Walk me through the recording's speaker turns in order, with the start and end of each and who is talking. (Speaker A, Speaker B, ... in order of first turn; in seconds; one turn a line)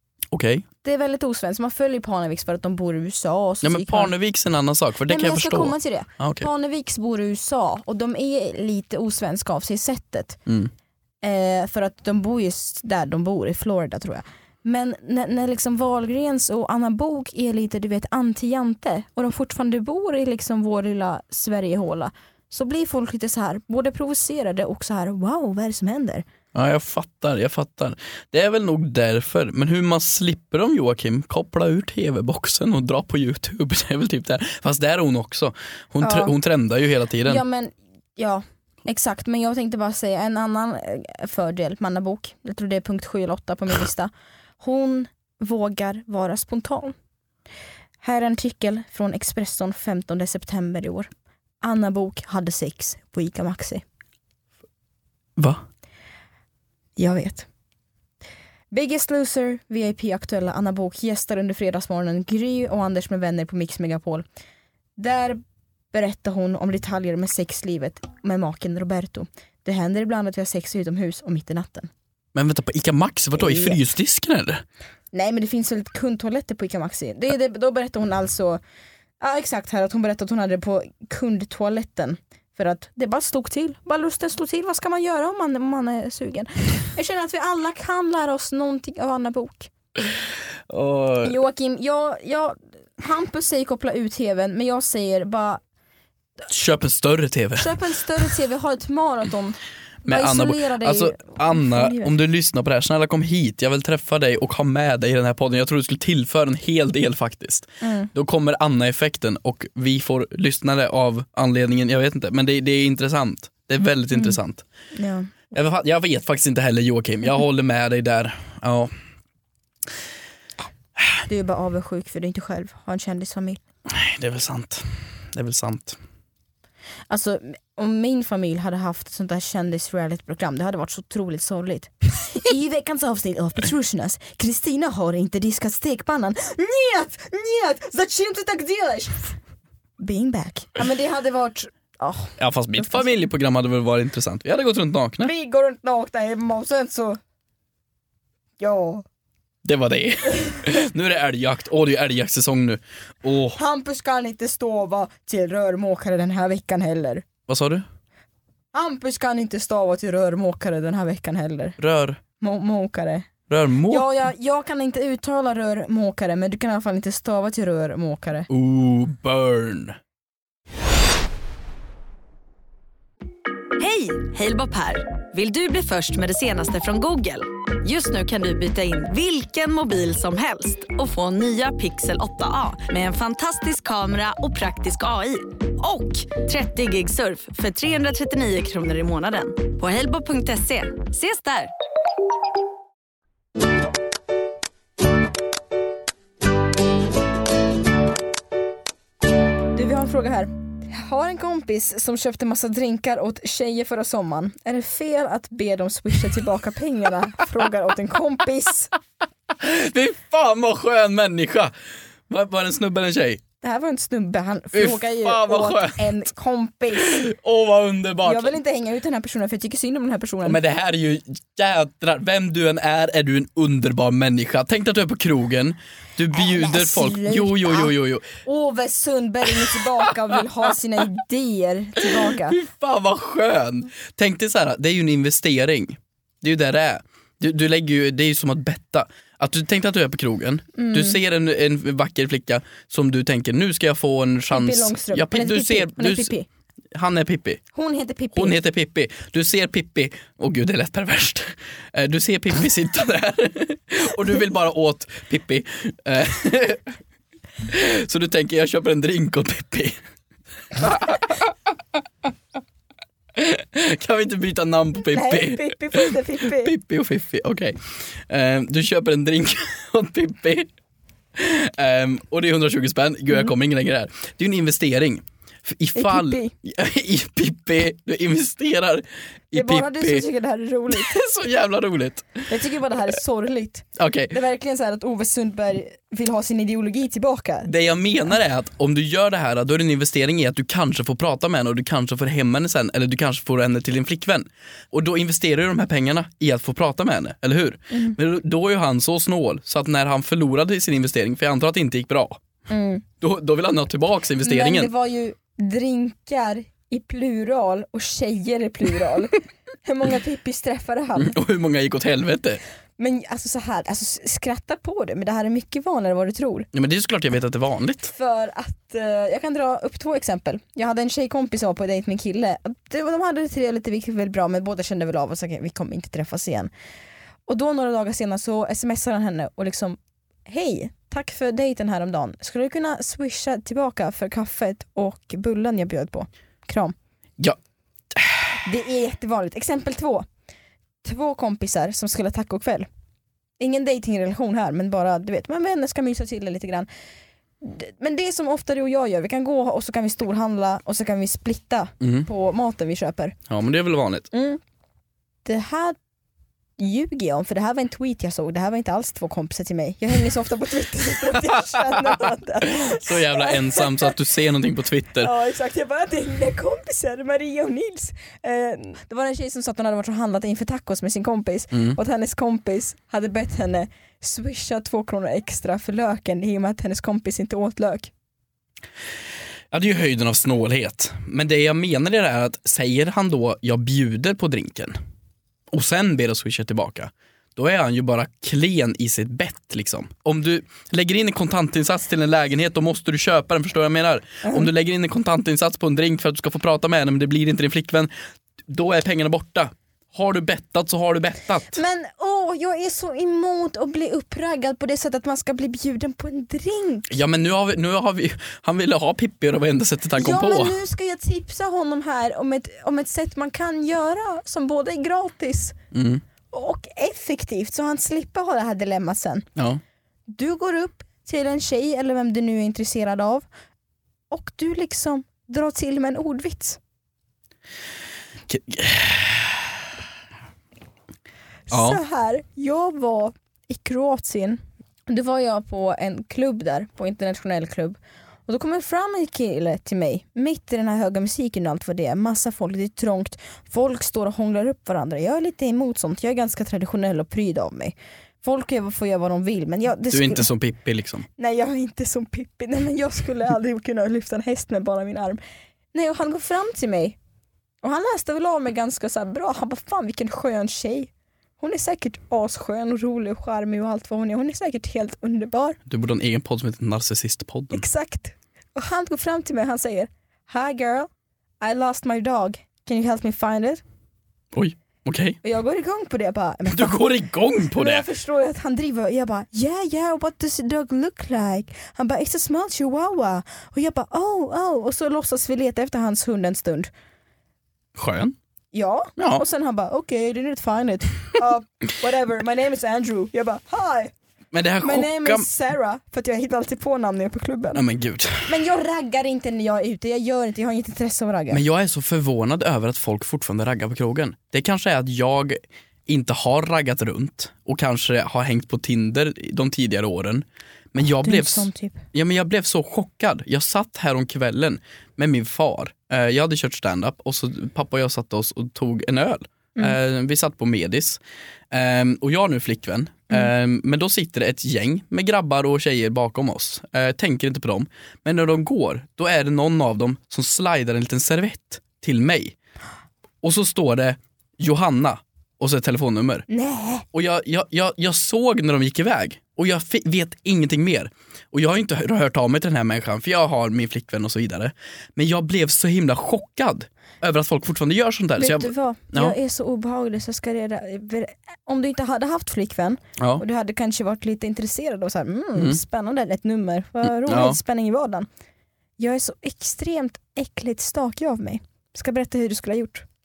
Speaker A: 0.3-0.7
Speaker B: 0.8-4.1
Speaker A: 3.6-6.5
Speaker B: 5.1-10.4
Speaker B: 11.2-26.2
Speaker A: 26.5-37.4
Speaker B: 36.0-36.3
Speaker B: 37.2-47.0
Speaker B: 48.0-51.1
Speaker B: 51.6-53.8
Speaker A: 55.4-55.6
Speaker B: 57.0-57.5
Speaker B: 58.7-64.2
Speaker B: 65.0-65.4
Speaker B: 65.9-71.9
Speaker A: 72.3-74.6
Speaker B: 73.4-73.8
Speaker B: 75.1-78.6
Speaker B: 79.2-89.7
Speaker A: 90.7-91.3
Speaker B: 91.2-95.6
Speaker A: 96.5-97.7
Speaker B: 97.6-102.1
Speaker A: 100.0-114.6
Speaker B: 107.8-108.1
Speaker B: 114.9-115.3
Speaker A: 115.5-118.9
Speaker B: 121.3-123.6
Speaker A: 123.9-126.0
Speaker B: 127.1-139.3
Speaker B: 140.0-143.1
Speaker A: 142.4-145.3
Speaker B: 145.2-147.2
Speaker B: 148.6-149.0
Speaker A: 149.6-153.6
Speaker B: 153.6-157.2
Speaker A: 157.5-157.9
Speaker B: 158.7-161.8
Speaker A: 161.8-162.2
Speaker B: 162.4-163.3
Speaker A: 163.5-164.1
Speaker B: 163.9-168.5
Speaker A: 168.5-170.0
Speaker C: 173.8-191.7
Speaker B: 199.7-208.9
Speaker A: 209.5-211.7
Speaker A: 212.3-213.4
Speaker B: 213.6-217.3
Speaker A: 214.7-216.1
Speaker A: 216.9-218.6
Speaker B: 218.2-220.6
Speaker A: 220.4-228.4
Speaker B: 226.3-232.6
Speaker A: 232.1-246.3
Speaker B: 240.8-241.2
Speaker B: 244.5-246.5
Speaker A: 246.9-247.6
Speaker B: 247.7-248.6
Speaker A: 248.3-256.9
Speaker A: 257.6-260.0
Speaker A: 260.7-261.5
Speaker A: 263.4-270.7
Speaker B: 265.0-266.7
Speaker A: 271.4-280.2
Speaker B: 276.0-276.5
Speaker B: 279.5-281.2
Speaker A: 280.9-282.5
Speaker B: 282.5-287.7
Speaker A: 284.0-284.4
Speaker A: 287.6-302.4
Speaker B: 302.7-303.0
Speaker A: 303.2-304.9
Speaker B: 304.4-311.4
Speaker A: 311.2-312.6
Speaker B: 313.0-316.7
Speaker A: 316.7-318.1
Speaker B: 318.1-326.7
Speaker B: 327.5-336.9
Speaker A: 338.1-338.5
Speaker B: 338.6-340.2
Speaker B: 341.0-342.9
Speaker B: 343.6-346.9
Speaker B: 347.6-353.4
Speaker A: 352.0-352.3
Speaker A: 353.5-354.3
Speaker B: 354.3-354.6
Speaker B: 355.4-356.0
Speaker B: 356.8-364.1
Speaker A: 361.6-365.3
Speaker B: 365.2-378.1
Speaker A: 379.7-385.0
Speaker A: 385.7-398.1
Speaker B: 394.4-394.7
Speaker A: 398.7-401.8
Speaker B: 401.7-407.1
Speaker A: 407.1-410.8
Speaker B: 410.1-415.8
Speaker A: 415.9-416.2
Speaker B: 416.5-419.5
Speaker A: 419.6-419.8
Speaker B: 420.3-423.5
Speaker B: 424.3-426.8
Speaker A: 428.5-429.8
Speaker B: 431.7-450.5
Speaker A: 431.7-432.0
Speaker A: 450.1-451.3
Speaker B: 451.4-455.4
Speaker B: 455.9-457.2
Speaker B: 457.8-465.8
Speaker A: 465.9-467.9
Speaker B: 467.7-471.1
Speaker B: 471.6-473.8
Speaker A: 474.5-475.4
Speaker B: 475.4-477.0
Speaker A: 476.7-478.1
Speaker B: 477.7-486.9
Speaker A: 487.9-488.4
Speaker B: 488.7-494.1
Speaker A: 489.2-489.4
Speaker A: 494.5-495.5
Speaker B: 494.8-497.8
Speaker A: 497.7-498.5
Speaker B: 498.4-501.6
Speaker A: 501.5-521.2
Speaker B: 511.0-512.0
Speaker A: 521.7-532.5
Speaker A: 533.4-536.5
Speaker B: 536.5-537.0
Speaker A: 537.1-549.4
Speaker B: 548.4-558.3
Speaker A: 553.2-553.4
Speaker A: 555.5-555.8
Speaker A: 557.0-557.6
Speaker B: 559.0-563.0